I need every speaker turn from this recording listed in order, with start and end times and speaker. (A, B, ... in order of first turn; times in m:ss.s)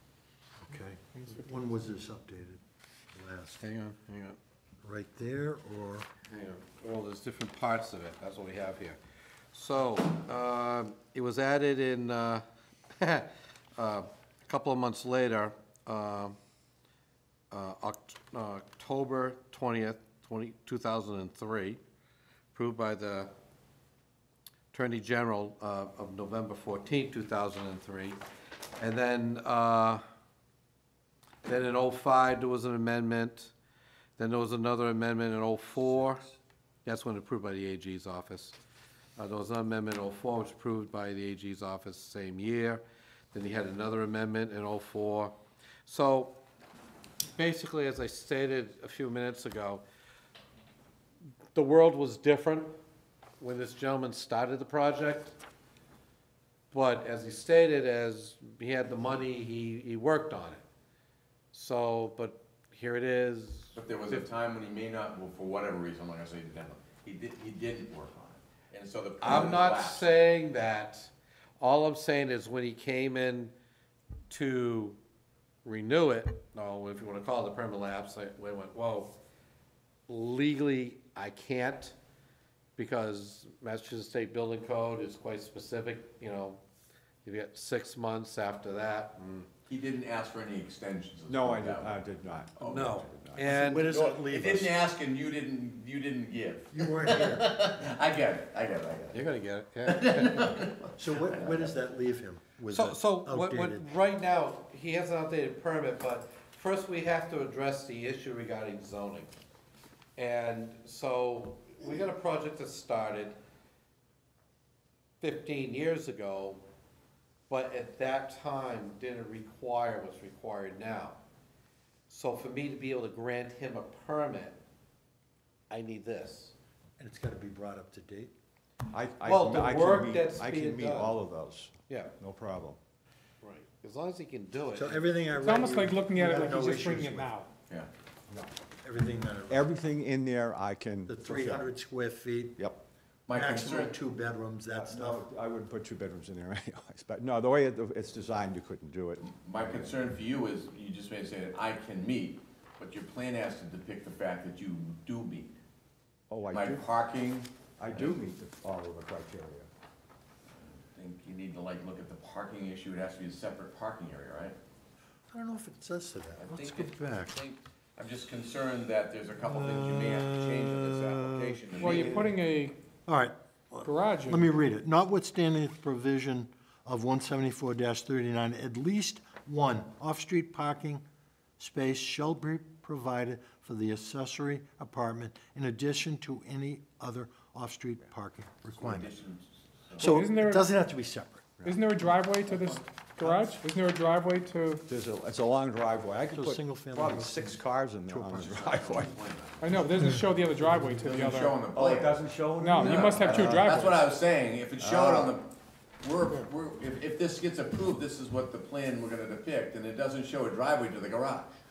0:00.6-0:02.6 A
0:01.1-0:01.6 B
0:03.1-0:03.6 A
0:03.6-0:04.4 C
0:04.8-0:06.1 A
0:06.3-0:09.0 C
0:09.5-0:12.4 C
0:13.0-0:16.4 C
0:17.5-0:21.8 C
0:22.5-0:23.3 C
0:24.7-0:28.2 C
0:28.8-0:30.0 C
0:31.4-0:33.5 C
0:34.2-0:36.2 C
0:35.8-0:36.4 A
0:36.8-0:38.5 C
0:39.2-0:46.4 C
0:47.3-0:49.8 C
0:51.5-0:52.8 C
0:53.4-0:55.4 C
0:56.7-1:00.6 C
1:01.5-1:04.2 C
1:03.7-1:10.1 D
1:09.2-1:13.5 C
1:14.3-1:15.0 C
1:15.6-1:19.1 C
1:20.1-1:22.0 C
1:22.8-1:26.6 C
1:27.2-1:29.5 C
1:29.7-1:32.0 D
1:31.3-1:33.5 E
1:32.6-1:33.1 D
1:32.6-1:33.9 C
1:33.4-1:34.8 A
1:33.6-1:39.3 D
1:36.7-1:37.7 A
1:39.1-1:40.6 C
1:39.8-1:41.7 D
1:41.0-1:43.9 A
1:42.7-1:49.3 C
1:50.2-1:53.4 C
1:55.2-1:56.6 C
1:57.5-2:01.2 C
2:02.1-2:04.6 C
2:05.7-2:06.5 C
2:07.0-2:08.3 A
2:08.9-2:12.8 E
2:09.2-2:11.2 C
2:11.9-2:12.1 C
2:13.4-2:15.0 C
2:14.7-2:17.3 A
2:15.4-2:17.5 B
2:18.8-2:19.7 A
2:19.5-2:21.7 E
2:21.1-2:22.6 A
2:23.3-2:24.0 D
2:23.3-2:25.2 A
2:24.7-2:30.0 E
2:29.2-2:35.5 D
2:36.3-2:36.8 E
2:36.5-2:38.2 D
2:37.8-2:39.7 E
2:40.6-2:44.6 D
2:45.3-2:47.4 A
2:46.4-2:52.3 D
2:49.4-2:51.6 A
2:51.8-2:52.8 B
2:51.8-2:52.2 E
2:53.1-3:01.0 A
2:53.8-2:54.6 B
3:01.6-3:09.1 A
3:08.7-3:10.2 D
3:10.0-3:10.7 B
3:10.0-3:11.7 A
3:11.6-3:14.8 B
3:12.5-3:12.8 D
3:13.2-3:13.5 A
3:14.9-3:19.1 E
3:16.2-3:18.6 A
3:18.4-3:22.1 D
3:19.6-3:21.6 B
3:21.7-3:23.8 E
3:22.6-3:24.0 B
3:22.8-3:31.5 D
3:24.8-3:25.3 E